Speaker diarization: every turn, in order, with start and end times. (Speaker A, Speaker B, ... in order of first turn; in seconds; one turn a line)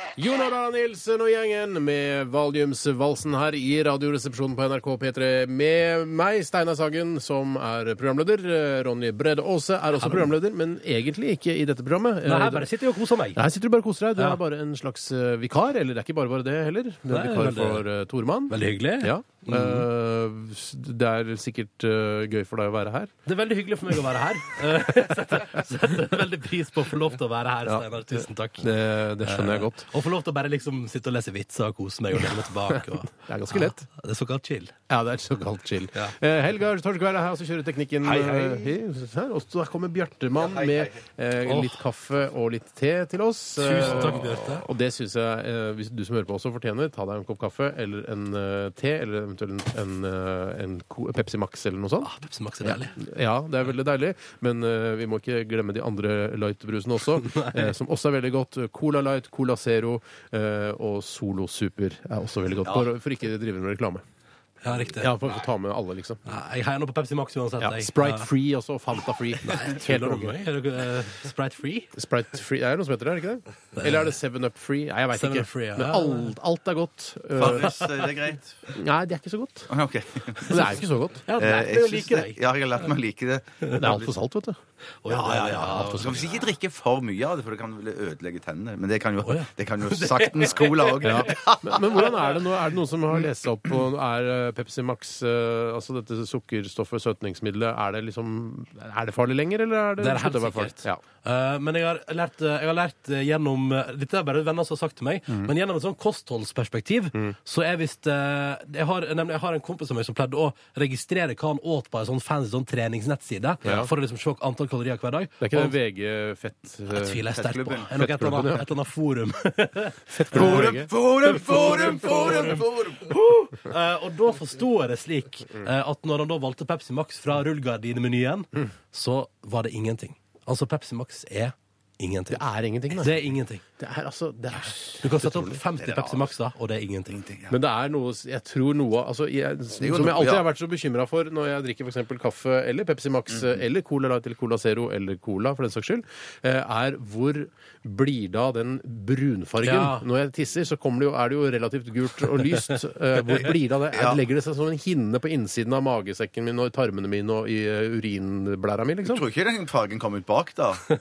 Speaker A: 0.2-12.7
Speaker B: 10.0-10.3
Speaker B: 12.2-13.4
Speaker A: 13.3-23.1
Speaker B: 17.1-17.9
Speaker B: 18.5-19.9
Speaker B: 23.2-34.7
Speaker A: 27.6-29.9
Speaker A: 33.1-33.9
Speaker A: 34.9-52.1
Speaker B: 38.0-38.6
Speaker C: 40.3-41.0
Speaker B: 41.5-41.8
Speaker B: 43.6-44.6
Speaker B: 52.0-53.0
Speaker A: 53.0-64.0
Speaker B: 57.2-57.6
Speaker B: 64.6-65.1
Speaker A: 65.0-66.2
Speaker B: 66.2-68.3
Speaker A: 67.6-70.4
Speaker B: 69.4-71.9
Speaker A: 72.0-77.7
Speaker B: 73.8-74.1
Speaker B: 75.1-76.3
Speaker C: 77.3-78.5
Speaker A: 78.7-79.7
Speaker C: 79.7-80.8
Speaker A: 80.5-81.2
Speaker B: 81.3-82.4
Speaker C: 81.3-84.1
Speaker A: 83.7-84.6
Speaker B: 85.0-86.3
Speaker C: 85.1-91.8
Speaker A: 85.2-86.3
Speaker B: 89.2-91.4
Speaker A: 91.0-101.0
Speaker B: 100.0-115.7
Speaker A: 113.6-113.9
Speaker A: 115.4-117.2
Speaker B: 116.9-133.6
Speaker C: 117.3-117.9
Speaker A: 118.0-118.7
Speaker A: 120.1-120.9
Speaker C: 120.3-123.2
Speaker A: 132.3-133.3
Speaker A: 133.8-135.6
Speaker B: 135.0-137.2
Speaker C: 135.8-136.3
Speaker C: 137.1-137.6
Speaker A: 137.5-159.2
Speaker C: 139.8-140.5
Speaker C: 143.3-143.6
Speaker B: 149.6-150.0
Speaker C: 153.3-154.2
Speaker C: 159.1-160.8